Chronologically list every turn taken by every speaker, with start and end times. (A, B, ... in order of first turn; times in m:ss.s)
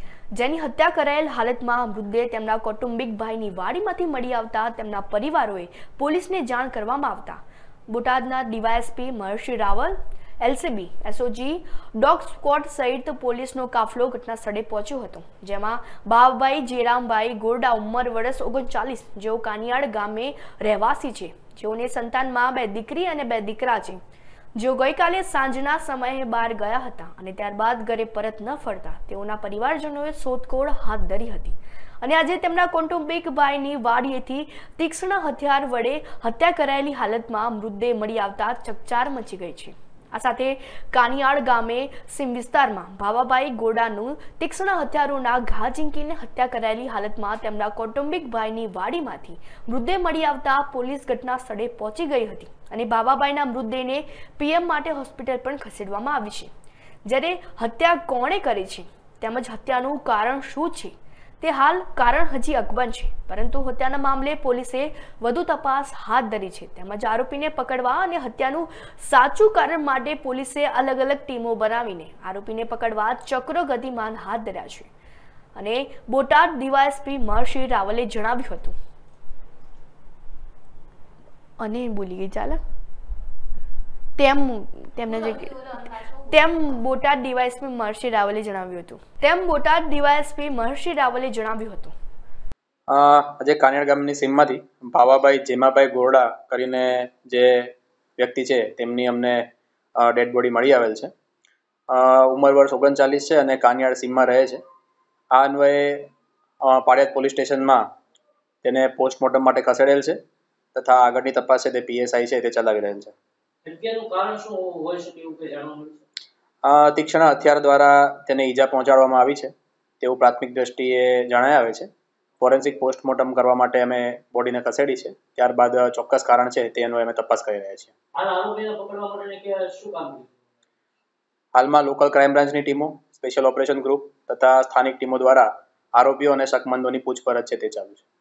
0:00.4-0:24.0 A
0:24.6-0:56.5 A
0:57.1-1:14.9 A
1:15.6-1:18.8 A
1:21.6-1:22.6 A
1:24.2-1:32.0 A
1:32.9-1:39.4 B
1:40.0-1:41.1 B
1:41.9-1:44.6 B
1:45.4-1:46.1 B
1:46.6-1:47.8 B
1:48.6-1:50.2 B
1:50.8-1:53.1 B
1:53.7-1:56.0 C
1:56.6-2:01.9 B
2:02.4-2:07.9 B
2:08.2-2:10.4 C
2:11.6-2:18.0 B